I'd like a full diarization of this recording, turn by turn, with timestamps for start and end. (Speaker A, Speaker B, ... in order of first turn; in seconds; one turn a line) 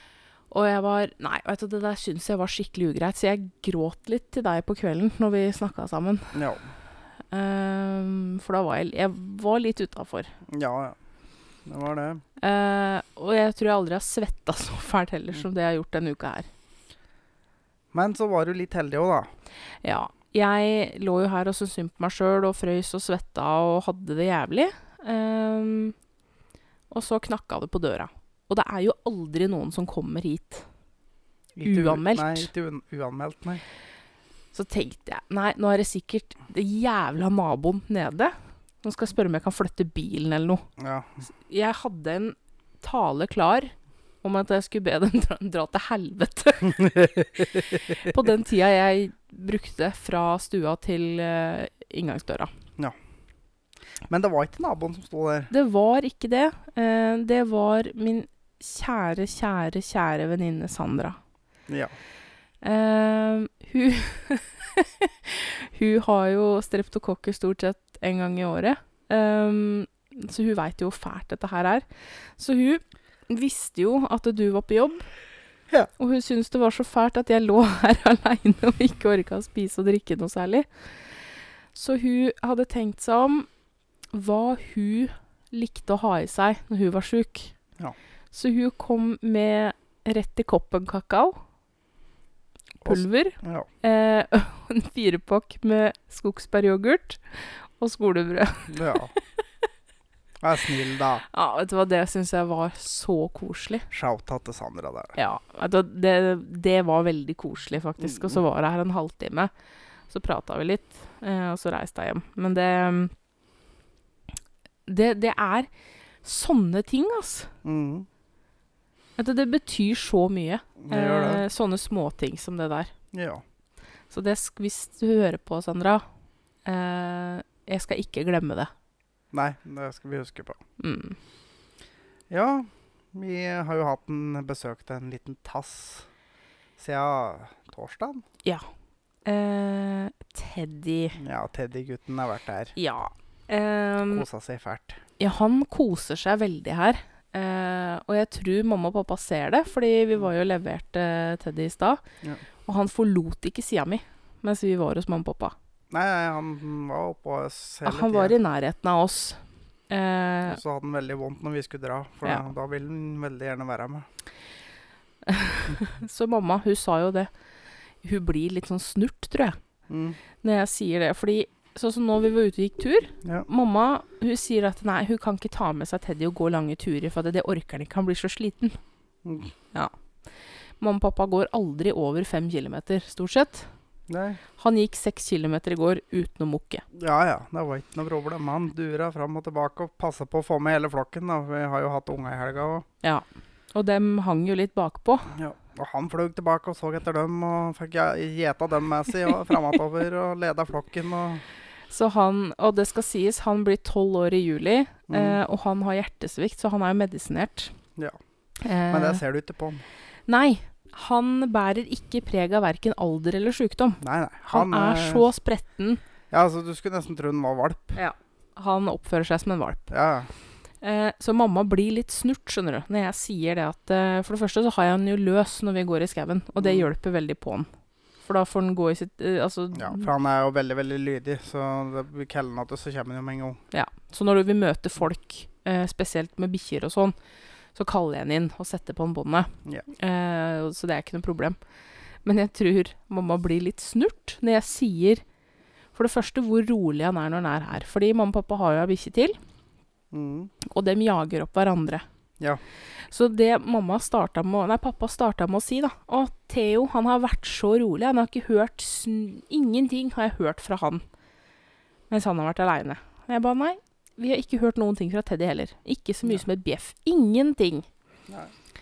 Speaker A: 0.5-6.4
Speaker B: 6.3-6.7
Speaker A: 7.3-10.3
Speaker B: 10.5-10.9
Speaker B: 11.6-12.2
Speaker A: 12.4-16.5
Speaker B: 17.9-19.3
Speaker A: 19.8-25.9
Speaker A: 26.9-30.6
Speaker B: 31.6-33.6
Speaker A: 31.6-32.5
Speaker A: 34.5-40.7
Speaker B: 40.8-41.2
Speaker A: 41.2-52.5
Speaker B: 46.8-47.7
Speaker B: 54.1-55.5
Speaker A: 55.5-61.2
Speaker B: 61.7-61.9
Speaker A: 62.6-75.1
Speaker A: 76.0-80.7
Speaker A: 81.7-83.5
Speaker A: 84.1-87.5
Speaker A: 88.3-91.4
Speaker B: 92.8-93.7
Speaker A: 92.8-99.0
Speaker B: 98.7-99.1
Speaker B: 100.4-101.2
Speaker A: 101.3-103.9
Speaker B: 103.9-105.1
Speaker A: 105.1-109.5
Speaker B: 108.1-108.4
Speaker A: 110.1-113.1
Speaker A: 114.8-115.7
Speaker A: 116.2-117.5
Speaker B: 117.6-118.1
Speaker A: 119.2-122.9
Speaker B: 120.8-121.4
Speaker B: 123.1-123.4
Speaker A: 124.1-126.0
Speaker A: 126.6-128.7
Speaker B: 129.3-130.6
Speaker A: 130.8-131.2
Speaker B: 132.3-136.1
Speaker B: 136.8-138.2
Speaker A: 139.2-141.2
Speaker B: 141.2-142.7
Speaker A: 142.8-144.2
Speaker B: 144.1-145.0
Speaker A: 145.2-152.0
Speaker A: 152.6-155.5
Speaker B: 155.9-158.3
Speaker A: 157.8-160.6
Speaker B: 160.5-164.1
Speaker A: 165.2-167.3
Speaker A: 168.0-169.6
Speaker B: 169.9-170.2
Speaker A: 170.4-178.8
Speaker B: 179.2-179.5
Speaker A: 180.8-183.7
Speaker B: 184.1-184.4
Speaker A: 184.6-186.8
Speaker B: 186.9-192.8
Speaker A: 193.0-195.3
Speaker B: 195.3-201.4
Speaker A: 201.9-207.7
Speaker B: 205.1-205.4
Speaker A: 208.6-209.2
Speaker B: 208.9-209.8
Speaker A: 210.3-214.0
Speaker B: 214.0-215.2
Speaker A: 214.5-216.0
Speaker B: 216.3-218.0
Speaker A: 217.9-219.9
Speaker B: 219.9-220.3
Speaker A: 220.8-227.7
Speaker B: 226.6-226.9
Speaker A: 228.2-230.1
Speaker B: 229.7-233.6
Speaker A: 233.7-237.1
Speaker A: 237.7-241.6
Speaker A: 242.2-245.2
Speaker A: 245.9-249.4
Speaker B: 250.1-250.5
Speaker A: 250.6-252.0
Speaker A: 253.1-261.0
Speaker A: 262.1-267.9
Speaker B: 268.3-268.5